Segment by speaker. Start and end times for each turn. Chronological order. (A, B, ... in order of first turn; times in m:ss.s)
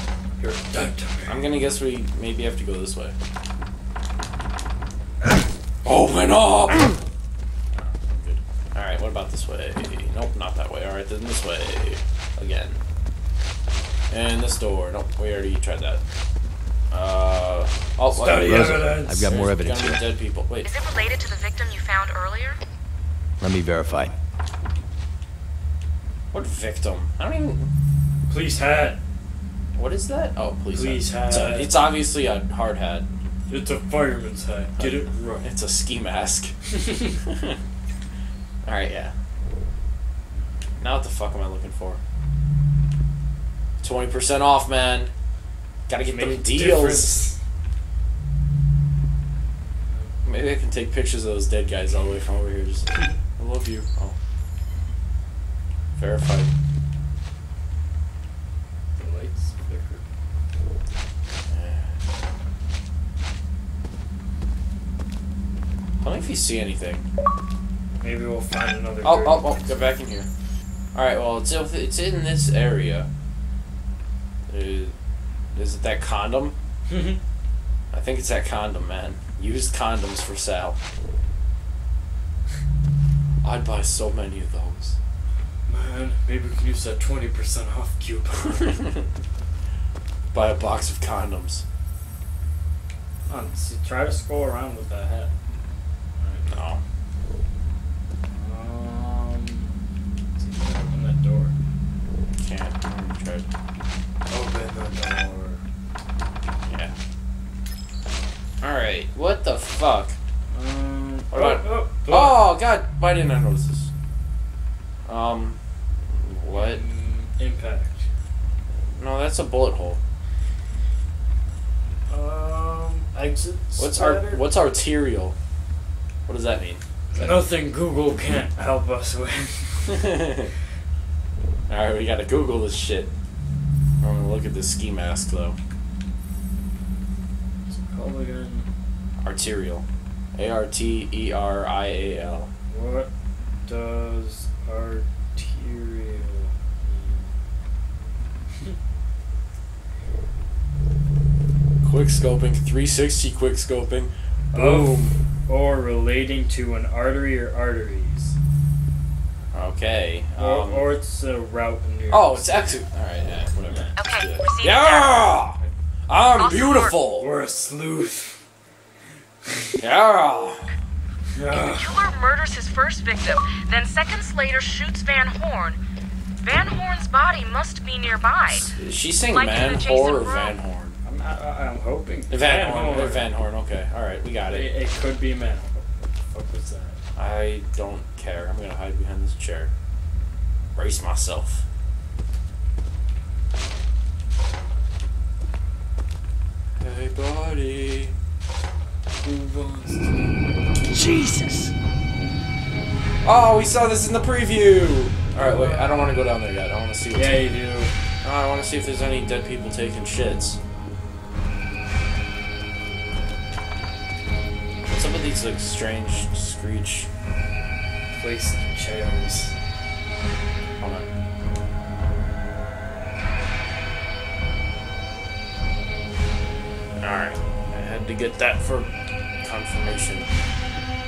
0:00.4-0:01.4 A
0:01.3-0:03.2 B
0:05.8-0:07.0 B
0:07.7-0:12.8 B
0:14.1-0:16.0 B
0:16.9-0:20.7 B
0:18.1-0:19.3 A
0:18.4-0:20.1 C
0:20.6-0:22.6 D
0:23.4-0:24.1 C
0:26.3-0:27.7 B
0:28.3-0:29.0 A
0:29.8-0:33.1 B
0:30.7-0:31.8 A
0:33.5-0:35.5 A
0:34.8-0:36.6 B
0:36.7-0:37.1 A
0:37.3-0:37.6 B
0:38.6-0:39.1 B
0:40.8-0:42.0 B
0:43.8-0:45.1 B
0:45.9-0:47.2 B
0:46.0-0:47.4 A
0:50.2-0:54.2 B
0:56.0-0:56.5 B
0:59.0-1:00.0 A
1:01.5-1:02.0 B
1:06.0-1:07.0 B
1:08.0-1:09.8 A
1:09.0-1:10.3 B
1:11.0-1:13.1 B
1:14.5-1:14.9 B
1:15.6-1:16.6 B
1:16.9-1:17.2 A
1:17.9-1:20.8 B
1:23.4-1:25.0 B
1:25.7-1:28.8 A
1:28.5-1:29.0 B
1:30.3-1:31.6 B
1:33.3-1:35.3 A
1:36.2-1:36.6 A
1:36.5-1:36.8 B
1:38.3-1:39.8 A
1:40.4-1:41.6 A
1:42.4-1:43.5 B
1:44.3-1:45.6 A
1:46.7-1:47.0 B
1:48.6-1:50.2 B
1:50.5-1:52.5 A
1:51.3-1:53.9 B
1:55.1-1:55.6 B
1:56.1-1:56.8 B
1:56.5-1:58.1 A
1:58.8-2:00.0 B
2:02.1-2:04.4 A
2:03.8-2:05.4 B
2:06.3-2:07.4 B
2:07.1-2:10.2 A
2:10.0-2:10.5 B
2:11.7-2:13.1 B
2:14.0-2:15.6 B
2:17.7-2:18.7 A
2:19.2-2:19.8 B
2:20.4-2:22.5 B
2:22.7-2:23.1 A
2:23.7-2:27.4 A
2:31.8-2:35.2 B
2:34.5-2:38.4 A
2:39.5-2:40.9 B
2:40.4-2:42.8 A
2:42.1-2:47.3 B
2:43.7-2:44.0 A
2:44.0-2:45.2 D
2:46.4-2:47.0 D
2:47.2-2:48.4 A
2:49.5-2:49.7 A
2:49.8-2:50.8 B
2:51.3-2:52.0 A
2:51.5-2:55.8 D
2:56.4-2:58.7 D
2:58.5-3:01.0 B
2:59.3-3:00.6 D
3:01.0-3:03.3 A
3:02.3-3:04.7 B
3:04.5-3:07.0 A
3:07.2-3:09.7 B
3:10.8-3:11.6 B
3:16.8-3:18.1 B
3:19.2-3:20.4 A
3:20.9-3:21.7 A
3:23.2-3:27.5 B
3:25.3-3:26.2 A
3:27.1-3:27.9 A
3:28.2-3:30.6 B
3:34.9-3:37.1 B
3:38.1-3:39.6 A
3:40.8-3:41.1 B
3:47.0-3:48.9 B
3:49.4-3:50.3 B